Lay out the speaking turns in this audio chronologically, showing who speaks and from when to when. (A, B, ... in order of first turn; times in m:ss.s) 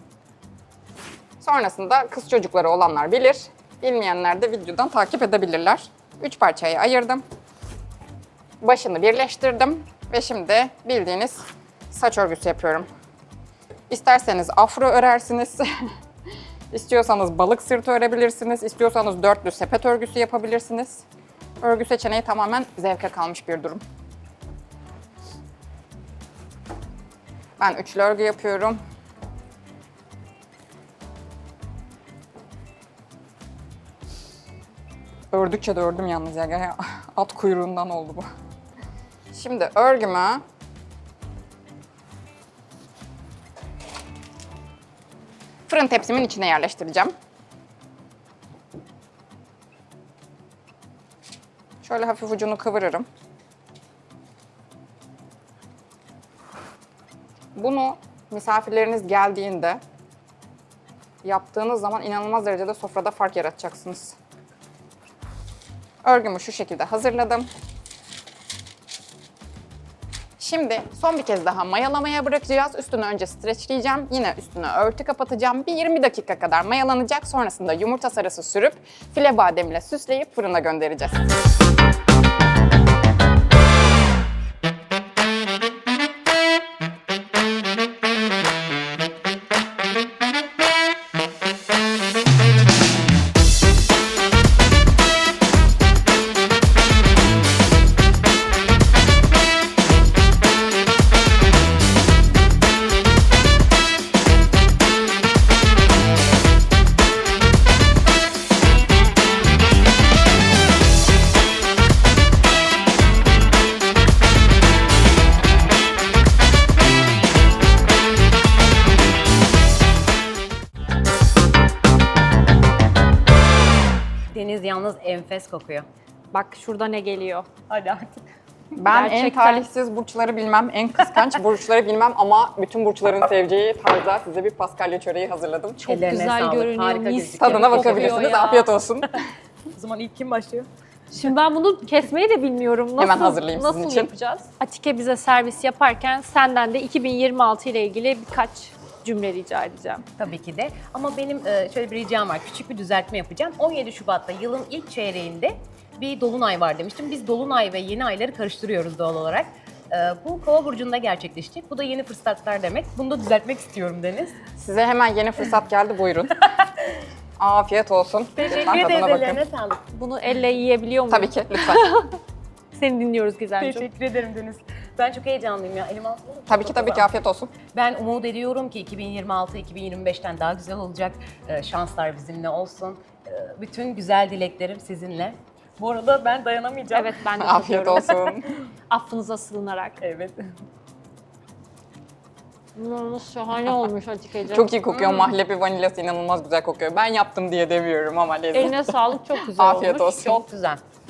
0:01.4-0:07.2 A
0:08.6-0:12.9 A
0:13.9-0:15.7 A
0:16.7-0:21.0 A
0:21.6-0:23.8 A
0:27.6-0:28.8 A
0:35.3-0:38.3 A
0:39.3-0:40.4 A
0:45.7-0:47.1 A
0:51.8-0:53.1 A
0:57.6-0:59.8 A
1:01.2-1:04.2 A
1:06.0-1:07.5 A
1:10.4-1:21.3 A
2:04.3-2:05.9 B
2:06.3-2:07.5 C
2:07.7-2:08.2 B
2:08.7-2:15.8 A
2:08.9-2:09.6 C
2:15.8-2:18.4 B
2:15.9-2:18.7 C
2:17.4-2:19.2 A
2:19.8-2:20.7 B
2:21.1-2:30.0 C
2:23.0-2:24.1 A
2:30.2-2:44.4 B
2:44.6-2:46.5 A
2:47.4-2:49.4 A
2:48.4-2:49.8 B
2:49.9-2:52.2 C
2:51.1-2:51.9 A
2:52.7-2:53.9 C
2:53.6-2:57.1 B
2:56.5-2:57.5 A
2:57.7-3:07.2 B
3:06.9-3:08.3 C
3:07.4-3:08.5 A
3:08.9-3:10.0 C
3:10.0-3:10.4 B
3:12.8-3:15.3 C
3:14.5-3:20.4 A
3:18.5-3:20.3 C
3:20.1-3:20.8 B